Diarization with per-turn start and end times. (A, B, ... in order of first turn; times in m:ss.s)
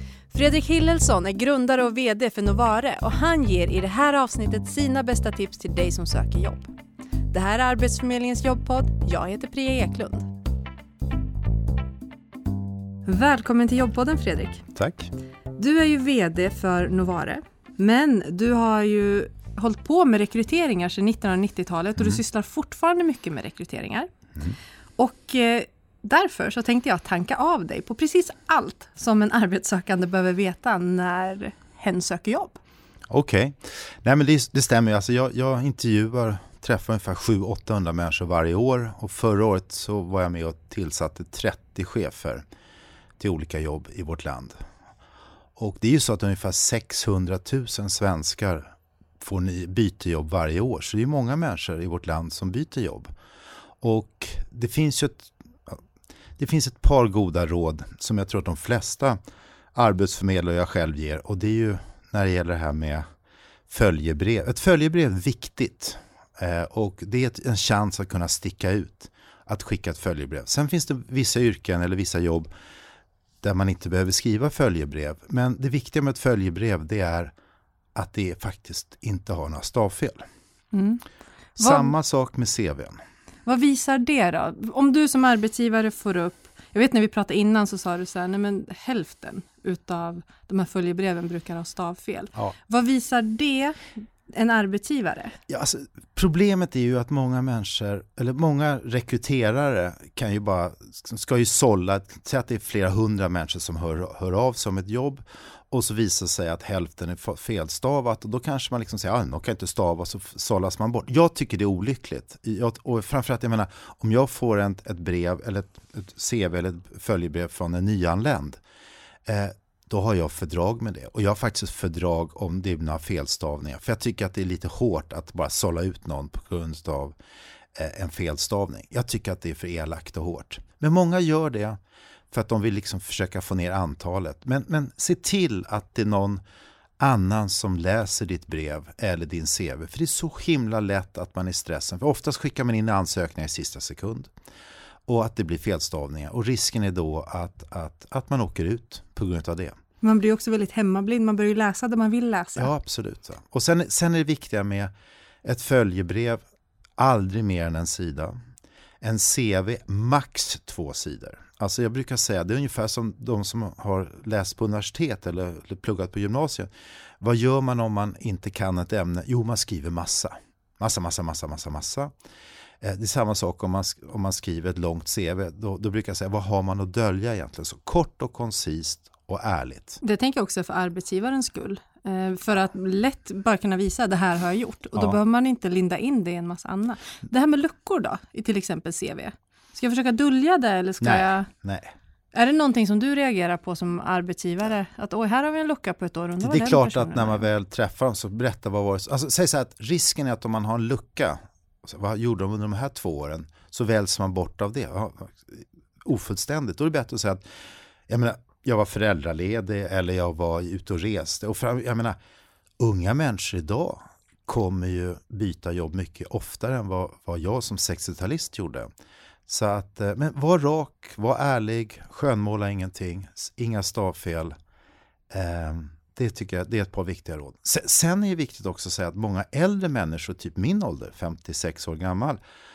0:00.3-0:06.7 A
0:07.3-0:10.3 A
0:13.0-0:14.6 A
0:14.7-0:15.1 B
0:15.6-0:24.1 A
0:25.0-0:32.6 A
0:33.1-0:42.4 B
0:43.2-0:44.5 B
0:45.6-0:48.7 B
0:49.2-0:53.1 B
0:53.8-0:55.8 B
0:56.4-0:59.2 B
0:59.7-1:03.0 B
1:03.7-1:12.5 B
1:13.4-1:17.3 B
1:17.9-1:20.2 B
1:20.7-1:21.0 A
1:21.6-1:23.0 B
1:21.6-1:21.9 A
1:23.4-1:33.8 A
1:34.3-1:35.4 A
1:35.5-1:58.6 B
1:59.2-2:07.2 B
2:07.7-2:11.8 B
2:12.3-2:16.4 B
2:17.0-2:24.3 B
2:25.1-2:29.7 B
2:30.0-2:32.7 A
2:32.6-2:34.9 B
2:35.4-2:36.4 B
2:37.0-2:38.4 B
2:39.0-2:52.1 B
2:52.8-3:00.0 B
3:00.0-3:11.5 A
3:11.0-3:11.9 B
3:12.3-3:17.5 A
3:16.4-3:27.4 B
3:28.1-3:32.2 B
3:32.8-3:38.9 B
3:39.5-3:44.5 B
3:45.3-3:52.4 B